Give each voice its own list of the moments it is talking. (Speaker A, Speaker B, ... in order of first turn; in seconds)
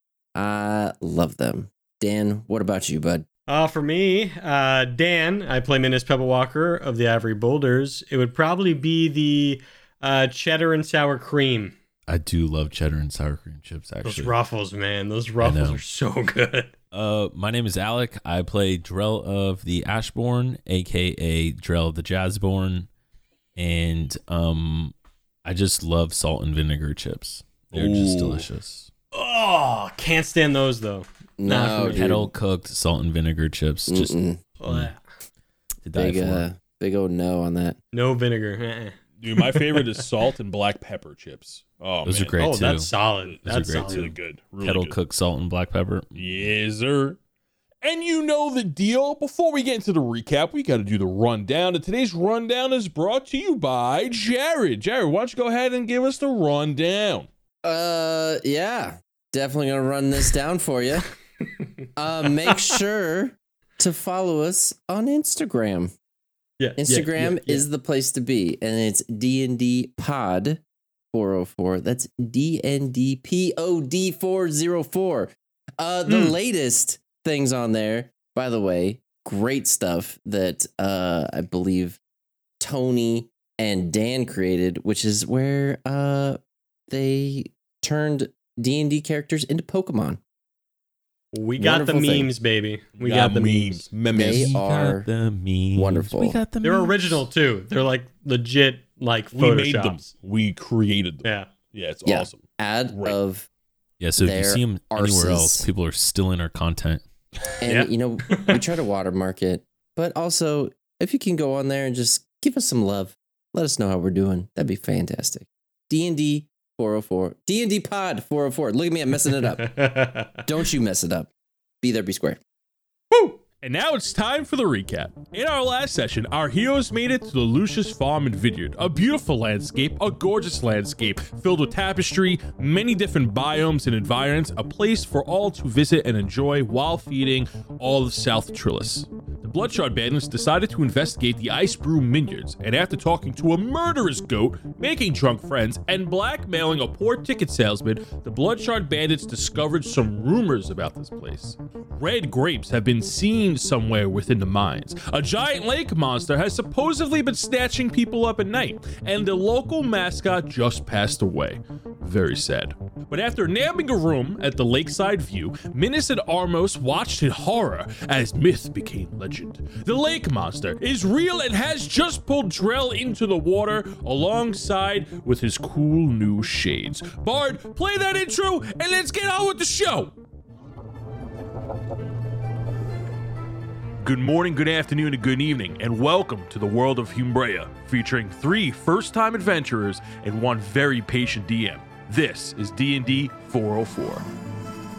Speaker A: 0.3-3.2, 31.4-32.3, 33.9-34.4, 36.0-37.8, 57.6-61.1, 62.0-65.9, 66.8-70.6, 71.1-82.0, 82.6-90.2, 91.6-92.3, 94.1-95.1, 95.7-96.4, 102.0-103.5, 104.2-105.7, 107.6-119.8, 120.4-121.3, 121.8-122.4
Speaker B: 3.5-11.7, 14.0-16.7, 29.1-32.0, 34.6-35.0, 37.9-39.9, 42.4-44.1, 66.6-67.7, 91.3-93.8, 96.6-100.0, 101.2-101.5, 107.6-108.6, 119.7-120.4, 123.1-123.4
Speaker C: 12.1-14.3, 15.4-15.8, 16.9-22.9, 23.6-24.9, 25.4-28.9, 31.8-34.9, 35.8-36.5, 42.0-42.9, 43.4-46.5, 94.2-97.2, 104.0-107.0
Speaker D: 27.7-28.4, 39.2-42.4, 43.2-45.0, 46.1-47.2, 47.8-57.3, 93.0-94.5, 99.3-103.2, 123.6-180.1, 184.0-194.2